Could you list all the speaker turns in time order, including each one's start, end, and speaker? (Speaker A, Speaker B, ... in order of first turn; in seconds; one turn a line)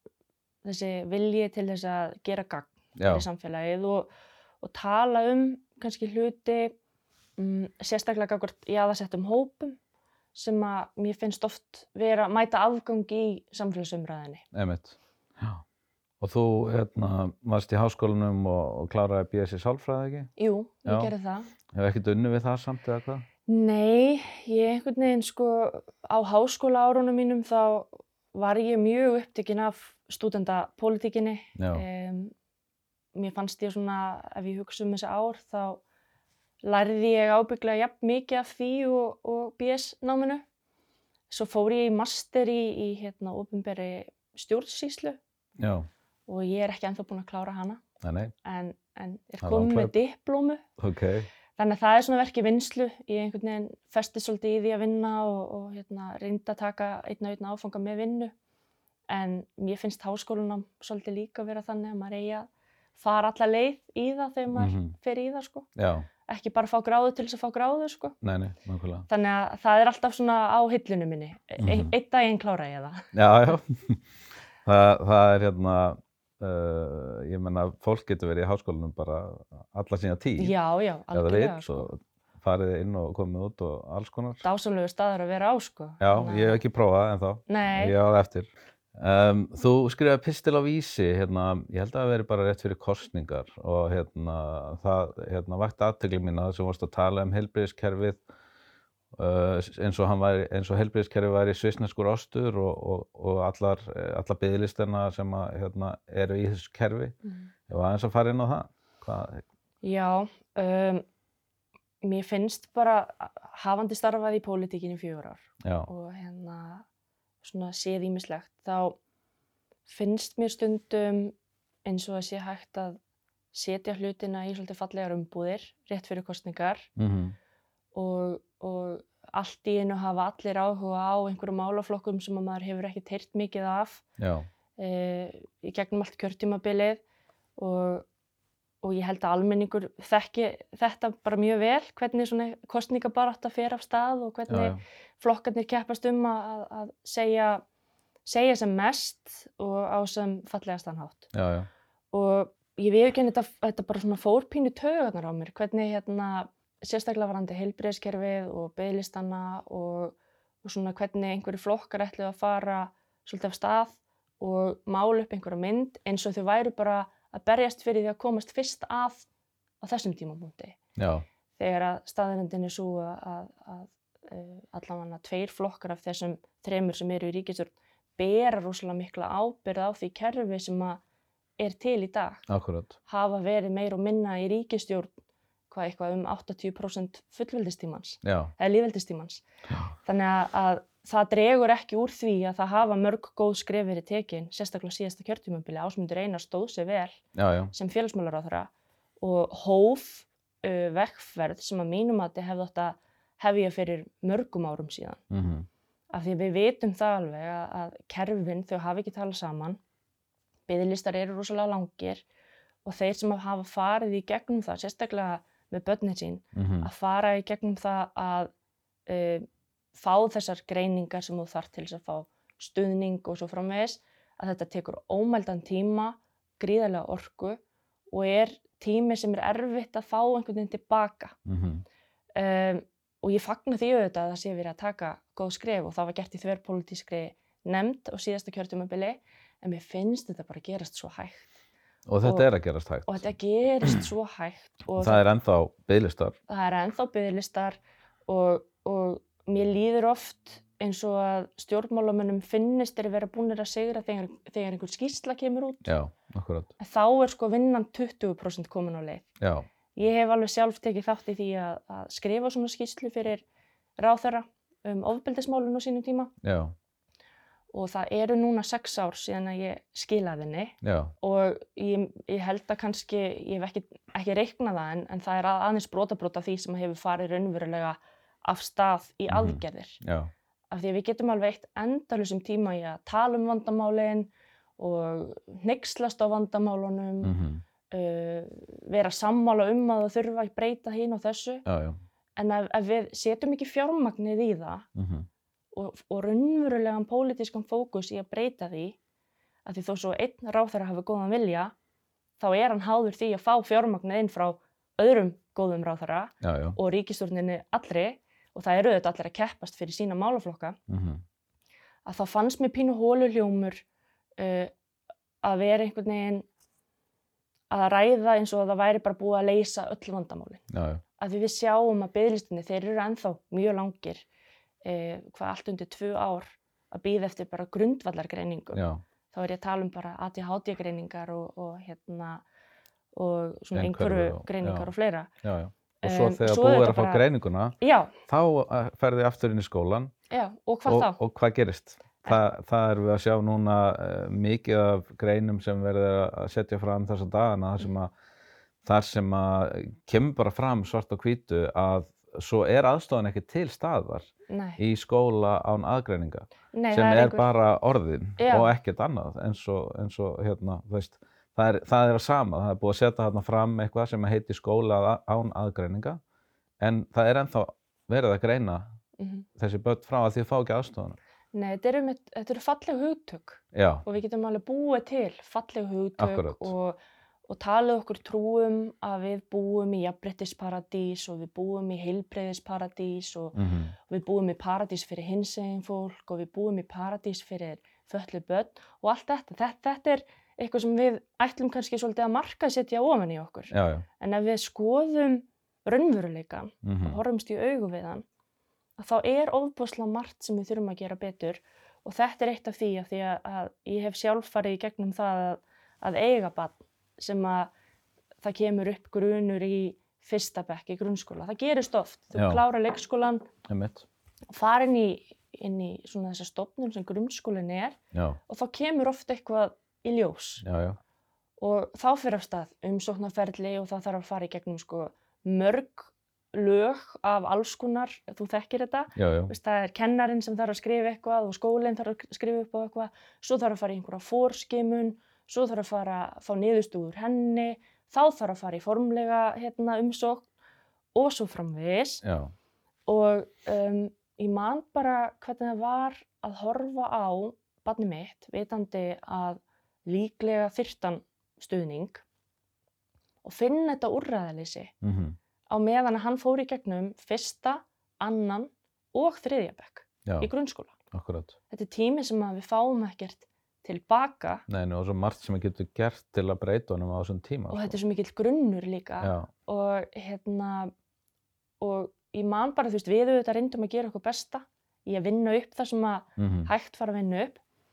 Speaker A: 0.6-4.1
Speaker B: 3.0-3.3
Speaker A: 4.6-6.8
Speaker A: 7.4-9.8
Speaker A: 10.3-14.4
Speaker B: 14.5-15.6
Speaker B: 16.2-20.3
Speaker A: 20.4-21.5
Speaker B: 20.9-21.1
Speaker B: 21.7-23.2
Speaker A: 23.5-32.3
Speaker B: 31.6-31.8
Speaker A: 33.1-35.8
Speaker A: 36.6-40.4
Speaker A: 41.3-45.2
Speaker B: 45.6-45.9
Speaker A: 46.3-47.8
Speaker B: 48.0-48.3
Speaker A: 48.4-50.6
Speaker B: 49.4-49.9
Speaker B: 50.8-51.3
Speaker A: 51.6-58.3
Speaker A: 59.1-65.7
Speaker B: 64.5-64.9
Speaker B: 65.8-66.1
Speaker A: 66.3-68.2
Speaker B: 68.2-69.1
Speaker A: 69.1-73.1
Speaker B: 71.6-71.9
Speaker B: 73.1-74.0
Speaker B: 74.6-80.5
Speaker A: 80.4-81.9
Speaker B: 81.1-84.4
Speaker A: 84.4-86.6
Speaker B: 86.0-98.2
Speaker A: 87.5-88.0
Speaker B: 99.1-107.2
Speaker A: 107.2-107.5
Speaker B: 107.7-109.4
Speaker A: 109.8-111.0
Speaker A: 112.0-116.8
Speaker B: 115.6-115.9
Speaker A: 117.4-119.0
Speaker A: 119.9-121.3
Speaker A: 121.8-123.0
Speaker A: 123.5-126.9
Speaker B: 127.0-127.3
Speaker A: 127.9-134.0
Speaker B: 134.2-134.5
Speaker A: 134.8-137.0
Speaker A: 137.6-138.0
Speaker A: 138.8-147.6
Speaker B: 144.5-144.8
Speaker A: 148.2-151.3
Speaker B: 151.3-151.7
Speaker A: 152.1-169.3
Speaker A: 169.8-170.8
Speaker B: 170.9-171.2
Speaker A: 171.6-181.0
Speaker A: 181.6-182.4
Speaker B: 182.5-183.0
Speaker A: 183.1-185.1
Speaker A: 185.7-189.4
Speaker B: 188.2-188.5
Speaker A: 190.0-197.2
Speaker B: 197.3-197.7
Speaker A: 197.7-205.2
Speaker B: 205.3-205.7
Speaker A: 206.1-209.8
Speaker A: 210.7-212.2
Speaker A: 212.8-218.5
Speaker B: 216.5-216.9
Speaker A: 219.1-231.4
Speaker B: 231.4-231.8
Speaker A: 232.3-241.5
Speaker B: 242.1-243.2
Speaker A: 242.2-242.5
Speaker A: 243.1-245.2
Speaker B: 245.0-246.3
Speaker A: 246.5-255.9
Speaker B: 255.8-256.7
Speaker A: 256.8-259.3
Speaker B: 259.4-259.6
Speaker A: 259.9-263.4
Speaker A: 264.0-266.3
Speaker B: 266.4-266.7
Speaker A: 267.7-280.0
Speaker B: 270.8-271.1
Speaker B: 279.3-280.3
Speaker A: 280.7-287.3
Speaker B: 287.2-287.6
Speaker A: 287.9-291.6
Speaker B: 291.6-292.0
Speaker A: 292.4-294.9
Speaker B: 294.9-295.3
Speaker A: 295.7-299.0
Speaker A: 299.6-301.7
Speaker A: 302.4-310.8
Speaker B: 306.4-306.8
Speaker B: 310.9-311.2
Speaker A: 312.0-313.8
Speaker A: 314.4-314.7
Speaker A: 315.4-316.5
Speaker A: 317.7-320.6
Speaker B: 320.7-321.0
Speaker A: 321.2-324.2
Speaker A: 324.8-332.4
Speaker B: 328.7-329.0
Speaker A: 333.1-335.3
Speaker B: 333.7-334.9
Speaker B: 335.4-340.1
Speaker A: 336.0-337.2
Speaker A: 337.8-338.1
Speaker A: 340.3-341.2
Speaker B: 340.9-348.1
Speaker B: 348.8-366.2
Speaker A: 354.5-354.8
Speaker A: 356.7-357.5
Speaker A: 358.4-358.7
Speaker B: 366.8-368.9
Speaker A: 369.2-369.5
Speaker B: 369.6-371.2
Speaker A: 371.5-398.2
Speaker B: 373.7-374.0
Speaker B: 376.2-376.7
Speaker B: 383.5-383.9
Speaker B: 393.7-394.1
Speaker B: 396.8-397.2
Speaker A: 399.0-407.7
Speaker A: 408.4-413.4
Speaker B: 412.3-412.6
Speaker B: 413.7-414.1
Speaker A: 414.5-418.0
Speaker B: 418.1-418.4
Speaker A: 418.5-420.6
Speaker B: 420.6-421.0
Speaker A: 421.6-440.5
Speaker B: 429.1-429.5
Speaker A: 441.1-442.2
Speaker B: 442.2-442.5
Speaker A: 443.1-452.2
Speaker A: 453.4-454.9
Speaker B: 455.0-455.4
Speaker A: 455.7-461.0
Speaker B: 461.1-461.5
Speaker A: 461.7-464.6
Speaker B: 464.7-468.0
Speaker A: 467.7-470.9
Speaker B: 469.2-469.5
Speaker A: 471.8-477.6
Speaker B: 476.4-476.7